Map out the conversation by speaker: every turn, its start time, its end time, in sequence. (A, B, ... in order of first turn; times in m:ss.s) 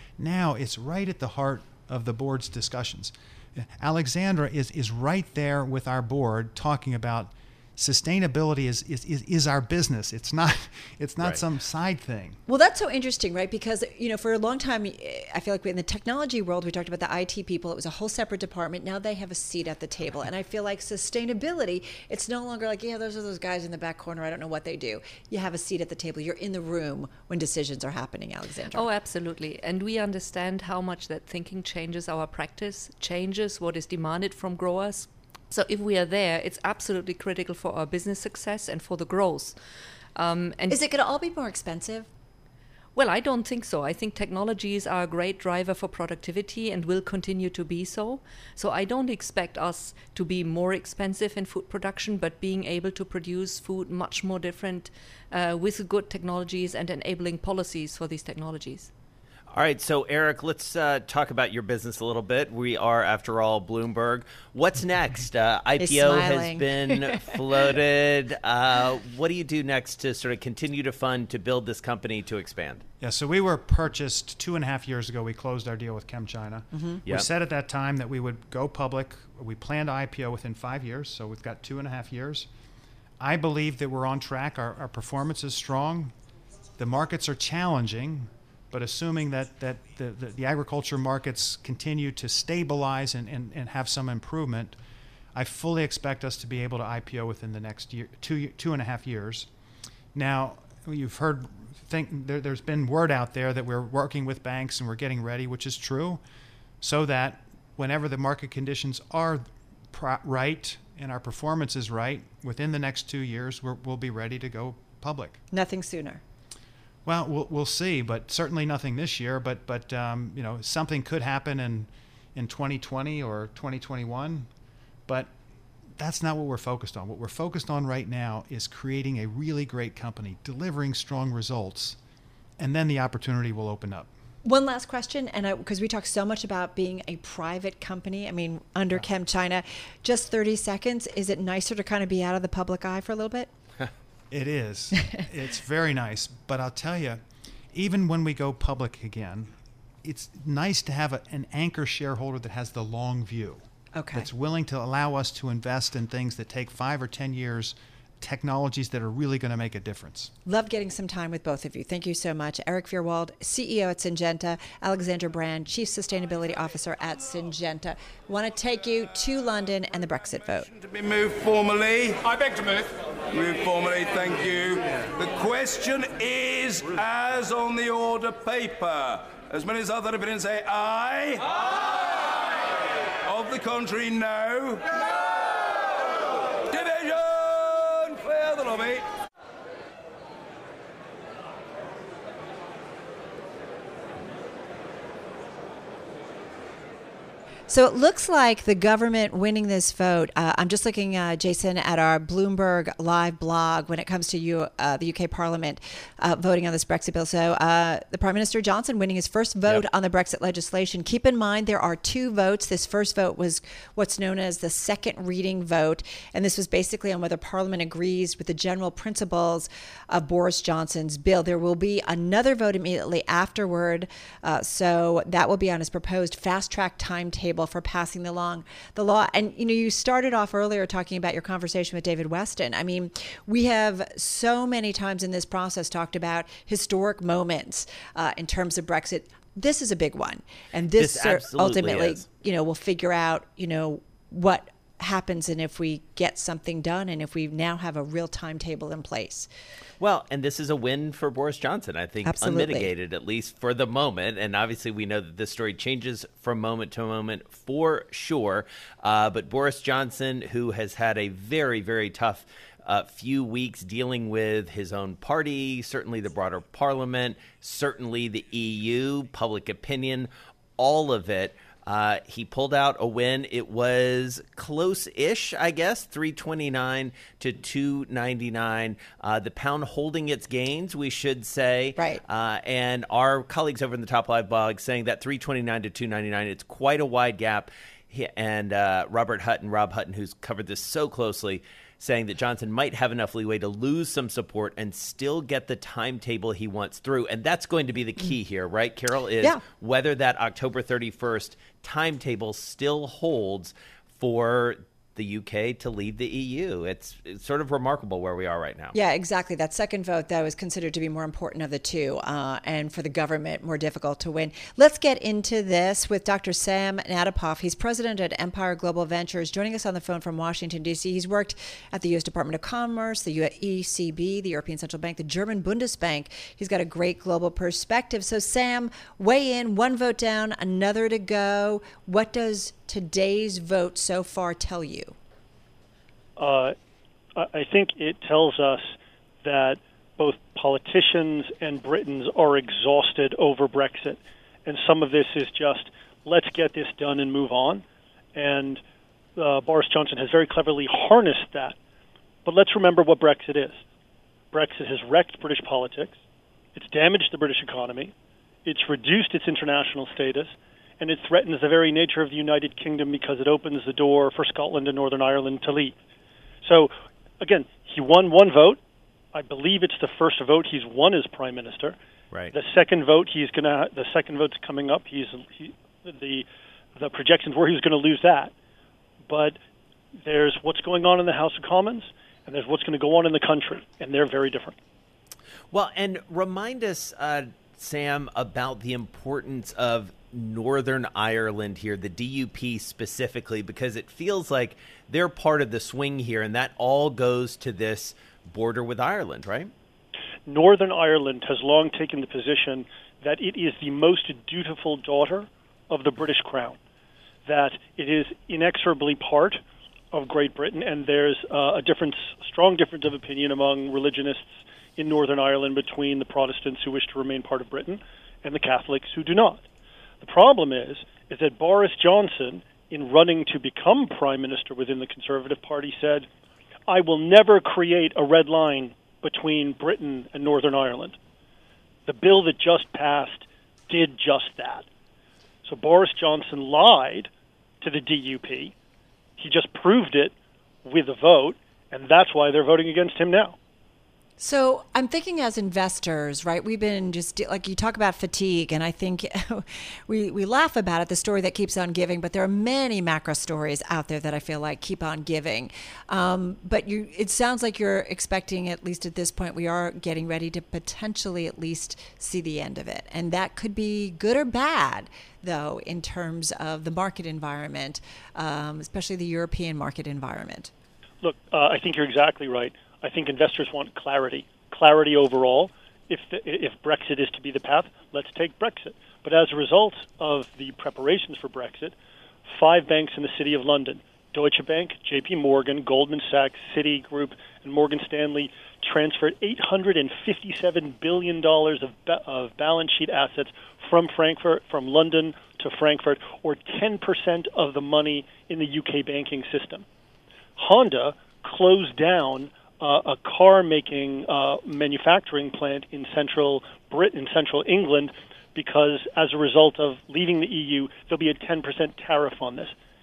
0:00.2-0:12.4 A
0:12.5-0:28.8 B
0:28.7-0:39.6 C
0:40.2-0:40.8 C
0:40.7-0:42.1 B
0:43.0-0:58.9 C
0:59.5-1:12.8 D
1:05.8-1:07.6 B
1:13.0-1:22.5 A
1:23.2-1:26.1 A
1:26.8-1:34.8 A
1:35.3-1:39.5 A
1:40.1-1:46.2 A
1:46.8-1:55.4 A
1:55.5-1:56.2 B
1:57.0-2:04.5 A
2:05.1-2:05.3 A
2:06.0-2:12.0 A
2:12.6-2:14.1 A
2:14.4-2:23.5 B
2:24.3-2:27.2 A
2:27.7-2:40.3 A
2:34.0-2:34.3 B
2:40.5-2:50.7 B
2:50.8-3:01.6 E
3:03.2-3:05.0 E
3:06.6-3:09.1 E
3:17.7-4:09.5 B
4:01.0-4:02.2 D
4:10.0-5:08.9 D
4:12.2-4:12.9 B
4:42.0-4:42.2 B
5:08.9-5:35.1 B
5:36.4-5:36.8 F
5:37.4-5:47.8 F
5:48.4-5:48.8 F
5:49.4-5:51.8 F
5:52.4-5:53.8 F
5:54.5-5:56.2 F
5:56.8-5:58.1 F
5:58.6-6:06.0 F
6:06.6-6:08.8 F
6:09.3-6:12.0 F
6:12.5-6:18.5 F
6:19.3-6:19.6 F
6:20.2-6:24.8 F
6:25.7-6:39.7 D
6:40.4-6:46.8 F
6:47.4-6:49.6 F
6:50.1-6:59.6 F
7:00.2-7:06.3 F
7:06.9-7:11.2 F
7:12.1-7:14.8 F
7:15.6-7:17.3 F
7:17.8-7:18.7 F
7:19.4-7:20.3 F
7:20.8-7:23.6 F
7:24.4-7:50.7 B
7:51.2-8:01.9 F
8:02.5-8:19.8 F
8:20.6-8:32.7 F